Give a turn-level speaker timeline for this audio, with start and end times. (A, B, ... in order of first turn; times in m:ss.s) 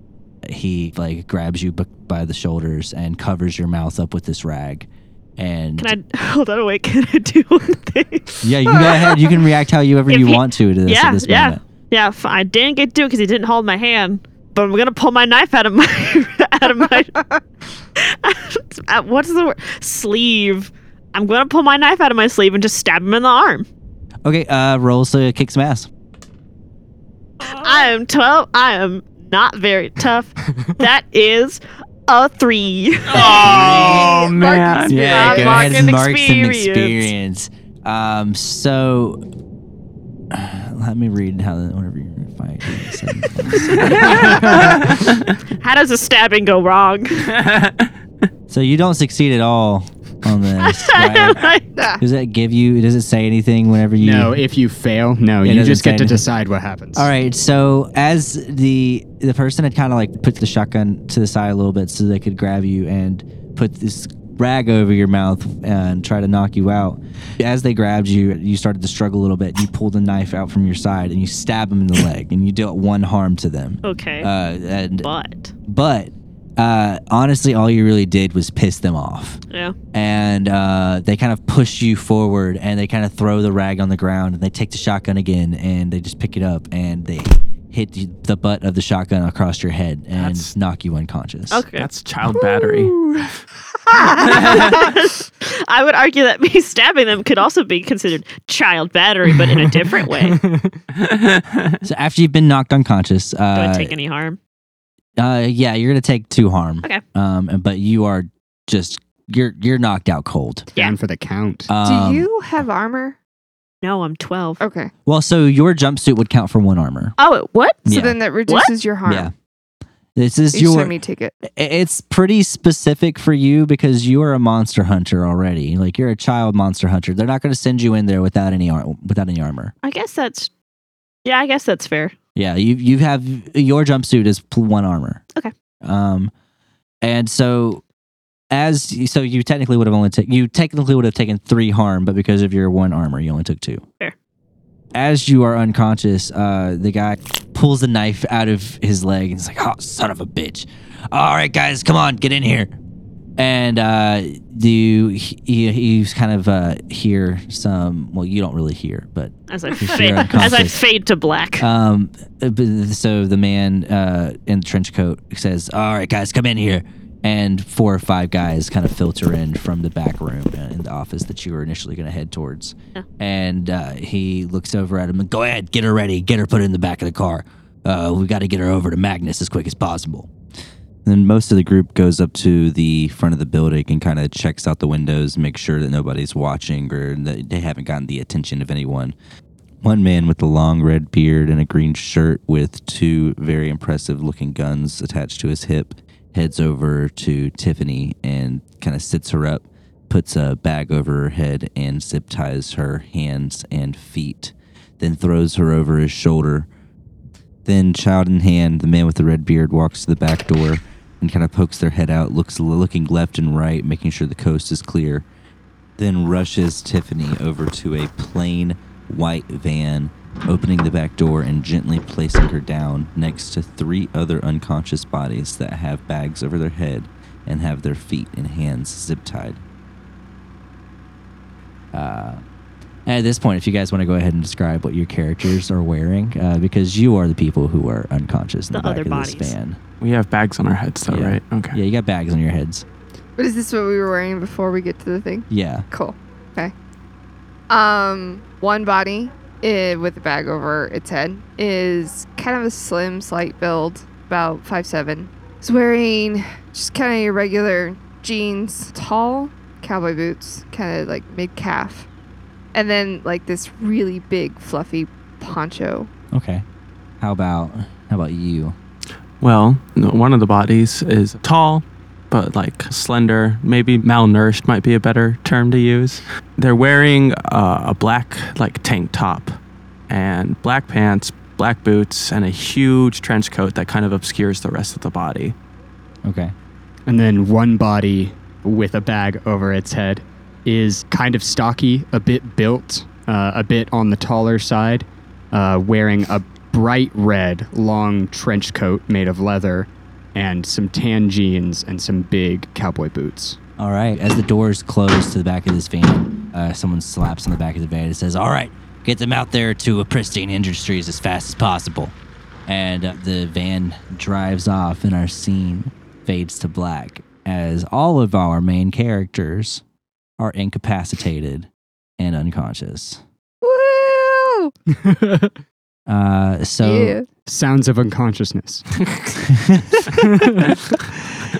0:00.4-0:05.9 A
0:05.8-0:08.8 B
0:08.4-0:11.6 A
0:10.1-0:17.1 B
0:18.0-0:23.6 B
0:24.2-0:25.9 A
0:27.4-0:33.4 B
0:33.1-0:35.5 C
0:33.2-0:35.7 D
0:33.4-0:34.1 A
0:34.8-0:39.2 A
0:35.1-0:37.1 B
0:40.3-0:44.8 A
0:43.6-0:44.9 B
0:45.6-0:47.4 B
0:48.5-0:51.4 A
0:50.6-0:51.6 B
0:51.8-0:52.0 D
0:52.0-0:54.4 A
0:54.0-0:57.1 E
0:55.4-0:56.2 A
0:56.9-1:15.1 A
1:13.8-1:14.3 B
1:15.0-1:15.5 B
1:15.7-1:19.4 A
1:19.5-1:19.7 B
1:19.9-1:31.6 A
1:30.1-1:30.5 C
1:31.5-1:31.9 B
1:31.8-1:33.3 C
1:33.9-1:34.6 D
1:34.2-1:40.4 B
1:40.3-1:40.8 E
1:41.0-1:41.7 C
1:41.8-1:43.9 A
1:43.5-1:44.4 B
1:45.2-1:50.7 A
1:50.8-1:51.7 E
1:51.7-1:52.3 A
1:51.8-1:53.2 D
1:53.8-1:54.6 B
1:54.6-1:54.9 D
1:55.0-1:57.2 A
1:57.2-1:57.8 B
1:57.8-1:58.2 A
1:57.9-1:59.3 D
1:59.0-1:59.3 A
2:00.2-2:09.7 A
2:00.5-2:01.3 D
2:09.8-2:10.5 B
2:11.2-2:12.1 B
2:12.3-2:15.2 A
2:15.8-2:16.3 A
2:17.0-2:17.8 A
2:18.5-2:23.8 A
2:24.9-2:32.7 A
2:33.4-2:40.8 A
2:39.5-2:41.6 B
2:41.6-3:00.3 A
3:01.0-3:09.1 A
3:09.8-3:26.7 A
3:27.6-3:35.2 A
3:36.0-3:49.6 A
3:51.9-3:52.4 A
3:53.0-3:59.8 A
3:58.7-3:59.6 B
4:00.0-4:01.8 C
4:01.1-4:02.8 A
4:03.4-4:06.7 D
4:05.5-4:05.8 A
4:07.7-4:22.1 D
4:22.7-4:26.1 D
4:26.3-4:26.6 A
4:27.2-4:28.8 A
4:29.4-4:39.6 C
4:40.1-4:45.5 C
4:46.2-4:46.5 A
4:47.1-5:03.6 E
5:03.8-5:12.1 A
5:12.7-5:19.8 A
5:20.4-5:23.2 A
5:23.6-5:24.7 D
5:25.0-5:25.5 E
5:26.1-5:27.2 A
5:26.8-5:27.3 D
5:27.4-5:29.0 E
5:29.5-5:30.0 A
5:30.2-5:31.0 E